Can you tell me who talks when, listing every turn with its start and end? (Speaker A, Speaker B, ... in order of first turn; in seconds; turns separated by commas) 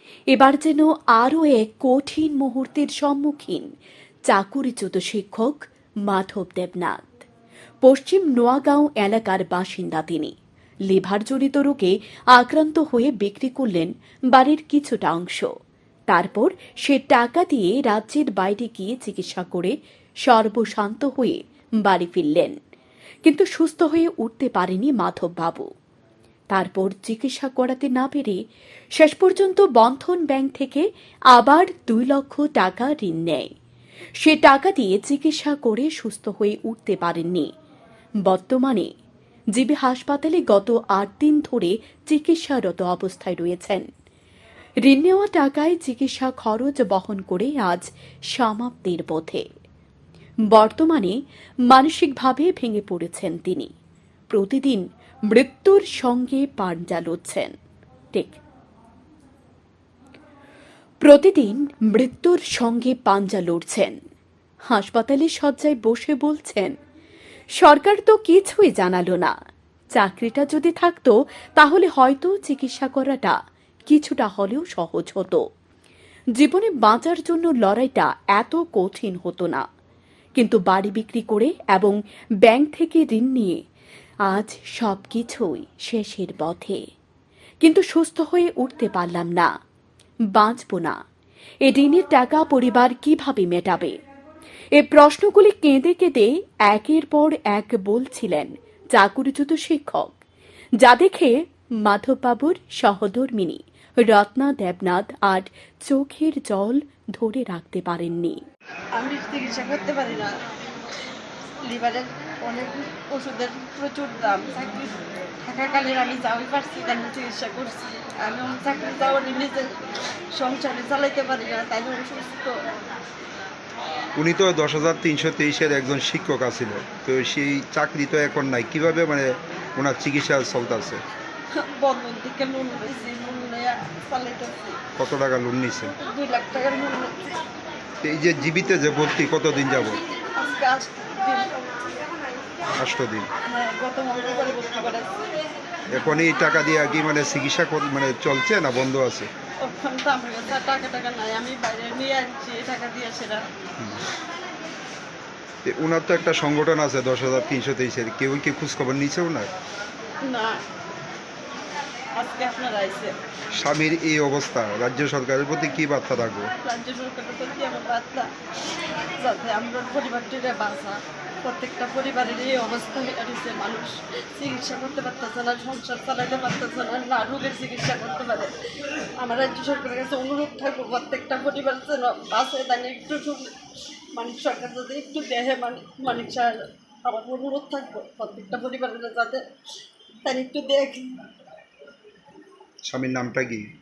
Speaker A: 0.3-3.7, Speaker A: 4.3-7.2, Speaker A: 7.8-10.3, Speaker A: 10.9-15.5, Speaker A: 16.1-19.7, Speaker A: 20.2-22.6, Speaker A: 23.2-25.7, Speaker A: 26.5-28.4, Speaker A: 29.0-33.5, Speaker A: 34.2-37.5, Speaker A: 38.2-38.9, Speaker A: 39.5-43.9, Speaker A: 44.8-49.5, Speaker A: 50.5-53.7, Speaker A: 54.3-57.5, Speaker A: 58.1-58.4, Speaker A: 61.0-64.0, Speaker A: 64.7-66.7, Speaker A: 67.6-69.3, Speaker A: 70.0-73.3, Speaker A: 73.9-75.4, Speaker A: 76.4-79.6, Speaker A: 80.4-83.6, Speaker A: 84.3-86.8, Speaker A: 87.6-89.5, Speaker A: 90.3-91.0, Speaker A: 91.7-94.0, Speaker A: 94.7-100.1, Speaker A: 100.8-108.4, Speaker B: 108.9-110.3, Speaker B: 111.6-119.7, Speaker B: 120.3-122.6, Speaker C: 124.2-131.0, Speaker B: 131.5-134.8, Speaker C: 135.0-135.9, Speaker B: 136.0-137.4, Speaker C: 138.0-140.0, Speaker B: 140.3-141.5, Speaker C: 142.8-143.3, Speaker B: 143.5-145.2, Speaker C: 145.9-149.3, Speaker B: 149.6-153.4, Speaker C: 155.6-159.5, Speaker B: 160.2-160.6, Speaker B: 162.2-163.1, Speaker C: 163.6-166.5, Speaker B: 166.6-168.3, Speaker B: 169.2-178.5, Speaker B: 179.2-183.5, Speaker B: 184.1-189.4, Speaker B: 190.2-191.1, Speaker C: 192.9-193.6